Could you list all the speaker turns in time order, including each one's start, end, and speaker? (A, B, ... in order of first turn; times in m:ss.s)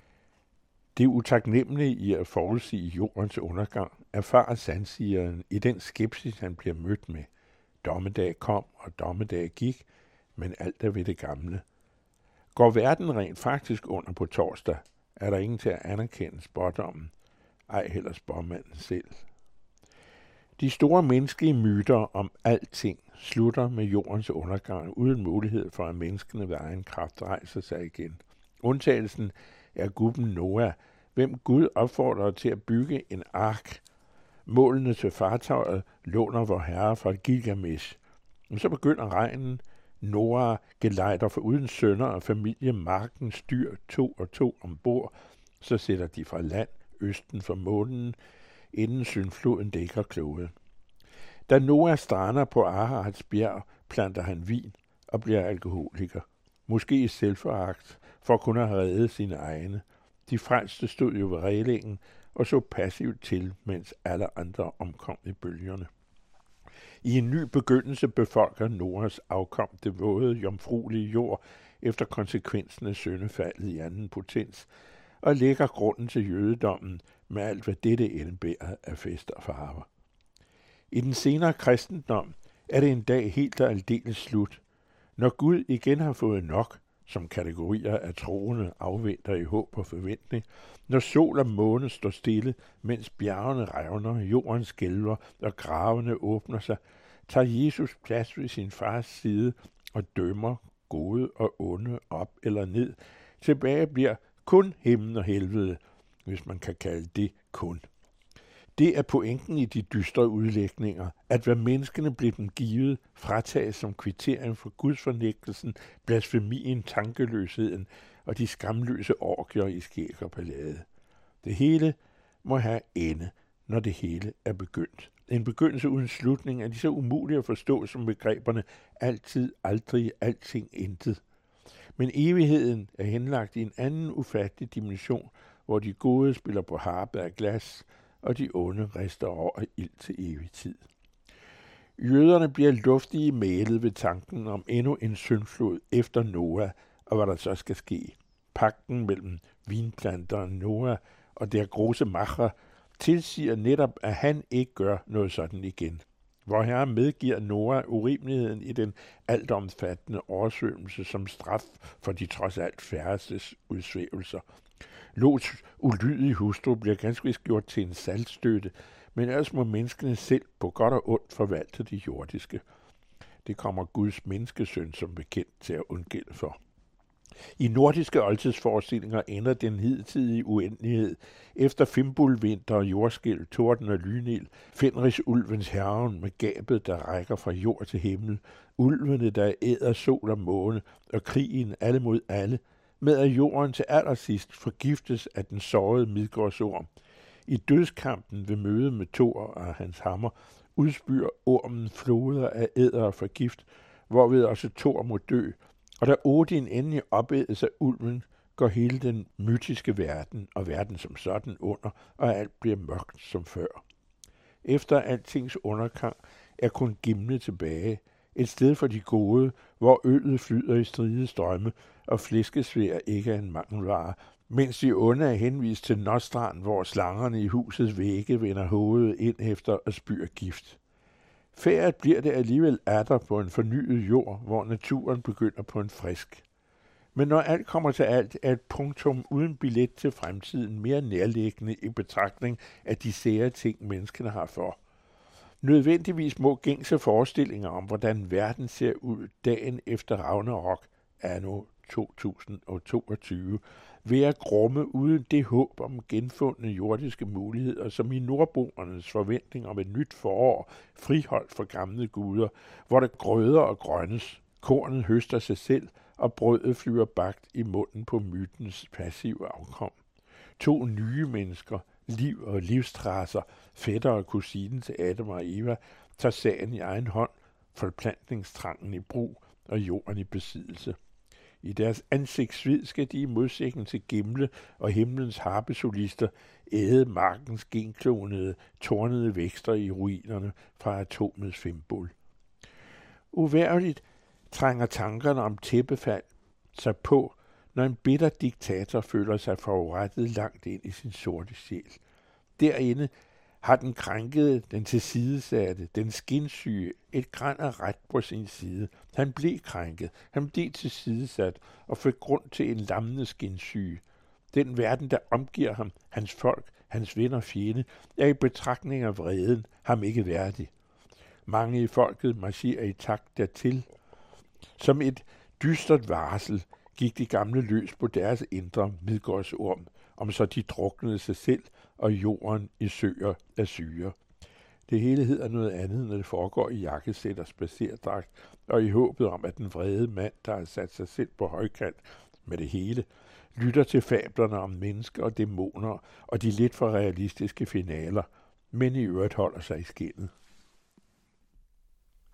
0:00.9-0:07.3 A
0:07.8-0:11.6 A
0:12.5-0:17.1 A
0:17.7-0:19.2 A
0:20.6-0:33.8 A
0:34.5-0:38.0 A
0:38.5-0:48.2 A
0:48.7-0:50.5 A
0:51.5-1:05.9 A
1:07.0-1:14.7 A
1:15.2-1:19.9 A
1:20.9-1:24.6 A
1:25.2-1:47.8 A
1:48.8-2:00.8 A
2:01.4-2:11.2 A
2:12.0-2:20.8 A
2:22.0-2:44.4 A
2:45.1-2:52.6 A
2:53.4-2:56.6 A
2:57.6-3:16.9 A
3:17.5-3:33.8 A
3:34.6-3:50.8 A
3:51.5-3:56.4 A
3:57.1-4:04.8 A
4:05.6-4:29.9 A
4:30.6-4:41.0 A
4:41.6-4:52.1 A
4:53.3-5:02.0 A
5:02.6-5:03.1 A
5:03.6-5:20.7 A
5:21.5-5:23.8 A
5:24.8-5:34.1 A
5:34.9-5:50.3 A